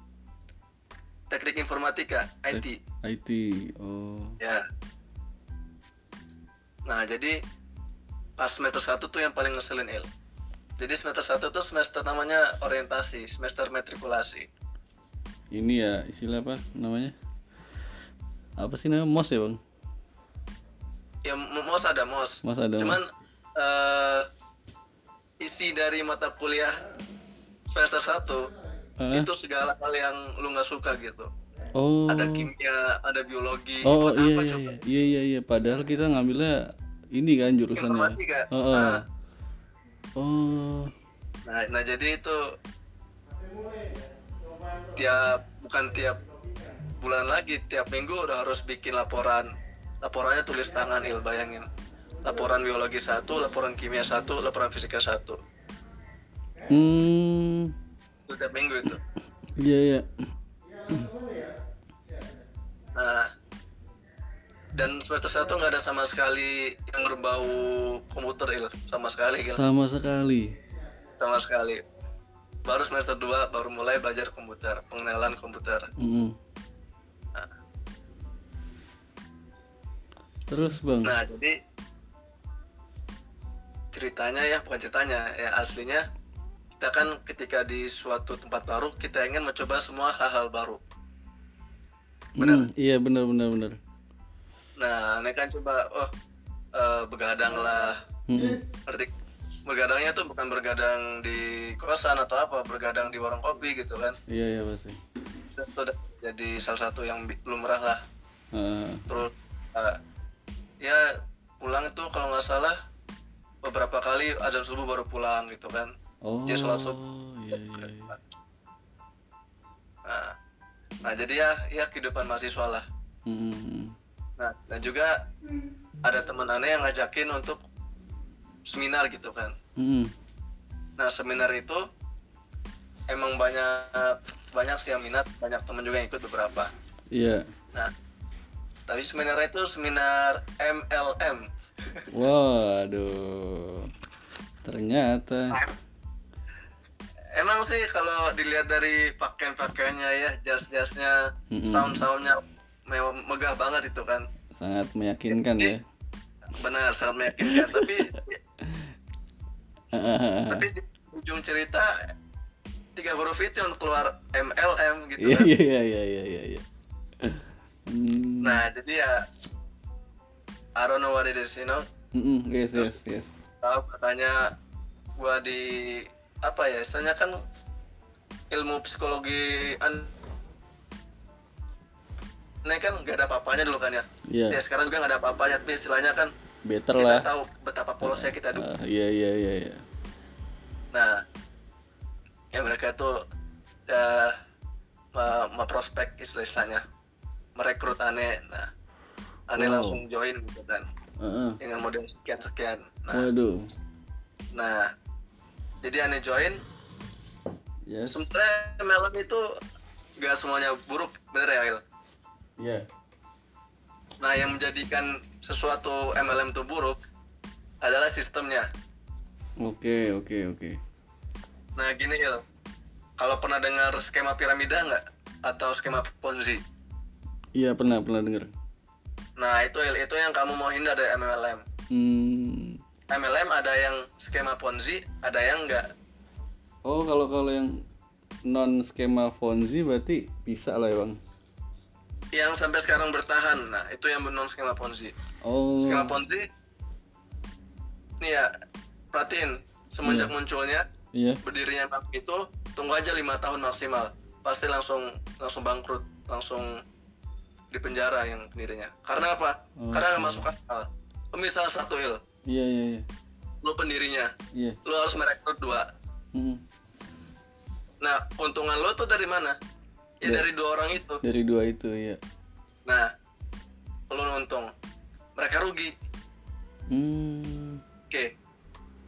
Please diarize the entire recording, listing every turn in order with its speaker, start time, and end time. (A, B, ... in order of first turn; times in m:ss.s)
0:01.3-0:02.8 A
0:02.5-0:04.4 B
0:04.4-0:04.7 A
0:06.9-0:07.4 A
0:08.4-0:10.1 A
0:10.8-0:14.5 A
0:15.5-0:17.1 B
0:18.6-0:19.6 B
0:21.2-0:23.0 A
0:22.4-0:23.0 B
0:23.6-0:24.3 A
0:25.4-0:26.7 A
0:27.7-0:28.5 A
0:29.0-0:29.3 B
0:29.1-0:31.3 A
0:31.8-0:32.5 B
0:32.1-0:34.7 A
0:33.8-0:39.0 B
0:37.8-0:39.0 A
0:40.2-0:40.9 B
0:41.4-0:42.4 A
0:45.0-0:46.2 A
0:47.0-0:49.5 A
0:50.0-0:51.7 A
0:52.2-0:55.4 A
0:56.7-0:57.7 B
0:58.3-0:59.0 A
0:59.6-1:00.0 B
1:02.9-1:03.3 A
1:04.8-1:09.6 A
1:09.5-1:10.6 B
1:11.2-1:11.8 A
1:12.6-1:15.9 A
1:16.0-1:16.3 B
1:20.5-1:21.2 B
1:21.0-1:21.5 A
1:23.9-1:26.0 A
1:26.8-1:30.8 A
1:32.4-1:33.8 B
1:32.4-1:32.7 A
1:34.8-1:36.1 A
1:36.8-1:38.0 A
1:38.3-1:38.6 B
1:38.8-1:39.1 A
1:39.6-1:44.2 A
1:44.3-1:45.0 B
1:45.5-1:48.0 A
1:48.5-1:49.0 B
1:49.1-1:50.0 A
1:50.8-1:51.1 A
1:51.6-1:52.8 A
1:53.6-1:55.9 A
1:56.2-1:58.2 B
1:56.5-1:57.0 A
2:00.0-2:00.3 A
2:01.0-2:02.8 A
2:03.2-2:03.9 B
2:04.4-2:05.1 A
2:06.0-2:07.6 A
2:08.7-2:09.5 A
2:09.8-2:10.1 B
2:11.0-2:11.8 A
2:13.1-2:16.7 A
2:17.1-2:17.5 B
2:18.9-2:22.0 A
2:22.1-2:23.9 B
2:24.6-2:25.6 B
2:27.3-2:34.2 A
2:31.5-2:32.0 B
2:34.6-2:35.8 B
2:35.4-2:35.7 A
2:36.6-2:38.4 A
2:37.4-2:37.9 B
2:39.9-2:40.7 B
2:40.5-2:41.9 A
2:43.0-2:45.5 A
2:45.2-2:46.6 B
2:47.2-2:48.6 B
2:48.4-2:49.2 A
2:50.8-2:51.8 A
2:52.1-2:53.3 B
2:53.6-2:54.5 A
2:55.2-2:57.4 A
2:58.5-3:00.1 A
3:02.6-3:06.3 A
3:04.3-3:04.6 B
3:06.7-3:07.3 B
3:07.0-3:08.6 A
3:08.0-3:09.8 B
3:10.9-3:11.2 A
3:12.5-3:13.2 A
3:13.9-3:14.4 A
3:15.1-3:16.8 A
3:17.6-3:18.7 A
3:19.5-3:20.9 A
3:19.6-3:20.0 B
3:21.2-3:21.6 B
3:21.6-3:23.3 A
3:23.1-3:23.7 B
3:24.5-3:24.9 A
3:25.8-3:26.6 A
3:27.9-3:28.2 B
3:28.1-3:29.4 A
3:30.2-3:31.8 A
3:32.6-3:32.8 B
3:34.2-3:37.0 A
3:37.8-3:38.7 A
3:39.6-3:40.8 B
3:41.8-3:42.4 A
3:43.2-3:46.6 A
3:47.6-3:48.5 B
3:49.4-3:51.6 A
3:51.9-3:52.8 B
3:53.1-3:55.9 A
3:56.8-3:57.8 B
3:58.5-4:01.2 B
4:02.3-4:05.1 A
4:05.4-4:06.2 B
4:05.8-4:06.5 A
4:08.2-4:08.5 A
4:09.1-4:10.9 A
4:10.0-4:10.3 B
4:11.1-4:11.4 B
4:11.4-4:16.8 A
4:17.7-4:22.2 A
4:19.8-4:20.5 B
4:22.5-4:23.1 B
4:23.6-4:24.3 A
4:24.8-4:25.9 A
4:26.3-4:26.6 B
4:28.0-4:29.6 A
4:30.2-4:31.2 A
4:31.2-4:32.2 B
4:34.1-4:34.7 A
4:35.4-4:35.9 A
4:36.9-4:37.8 B